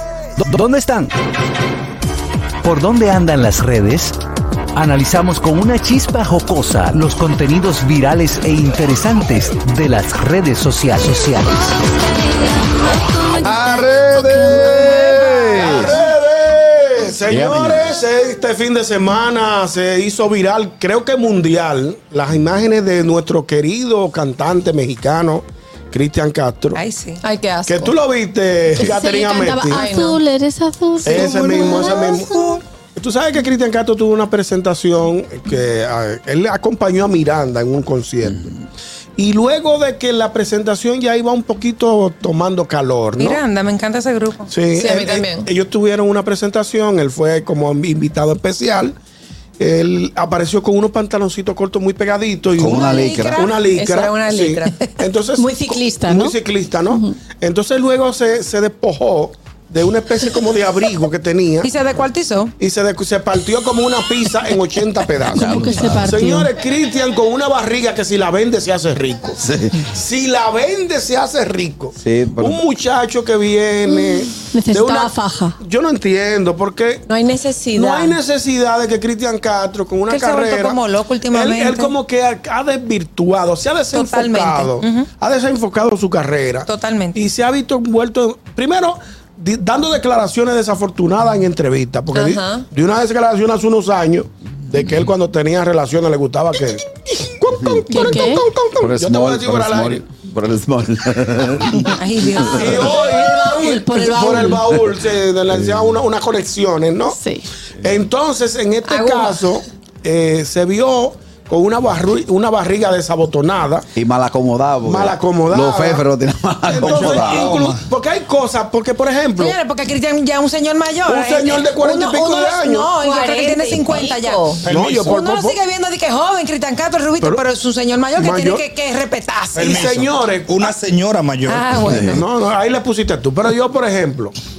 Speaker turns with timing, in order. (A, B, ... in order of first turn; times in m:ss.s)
0:00.4-0:01.1 A
0:02.6-0:04.2 A
0:04.7-0:11.6 A
0:13.3-0:16.0 B
0:14.6-0:15.9 C
0:15.5-0:26.8 D
0:17.3-0:17.8 B
0:26.7-0:27.2 C
0:27.2-0:27.9 E
0:27.6-0:30.0 D
0:28.8-0:30.2 E
0:28.8-0:32.6 F
0:31.0-0:38.5 D
0:39.2-0:43.4 D
0:43.2-0:44.5 C
0:44.5-0:49.0 D
0:44.7-0:45.5 E
0:49.6-1:01.7 D
0:52.6-0:53.4 B
0:52.6-0:53.6 C
0:53.4-0:54.8 E
0:55.3-0:57.1 F
1:01.6-1:02.5 C
1:02.6-1:17.0 D
1:05.3-1:06.5 F
1:05.3-1:06.0 B
1:09.4-1:09.8 B
1:12.0-1:12.6 B
1:13.9-1:15.6 F
1:17.1-1:18.2 E
1:17.7-1:20.8 D
1:20.1-1:21.9 C
1:21.3-1:40.0 D
1:23.9-1:25.1 C
1:26.6-1:27.2 C
1:32.1-1:32.6 E
1:37.5-1:38.0 B
1:37.9-1:38.4 F
1:38.8-1:43.0 B
1:41.8-1:43.0 C
1:42.4-1:47.2 D
1:43.0-1:44.7 F
1:44.5-1:44.8 B
1:47.0-1:47.5 F
1:47.8-1:53.9 D
1:48.8-1:49.4 E
1:53.9-1:57.5 B
1:54.8-1:56.0 D
1:56.7-1:59.6 D
1:56.7-1:57.9 G
1:59.4-2:09.8 C
2:01.0-2:02.9 D
2:03.0-2:04.6 E
2:04.7-2:05.0 G
2:04.7-2:05.6 D
2:07.2-2:07.4 D
2:08.2-2:08.6 D
2:09.6-2:10.7 D
2:09.6-2:12.2 G
2:11.5-2:12.2 C
2:12.1-2:14.3 D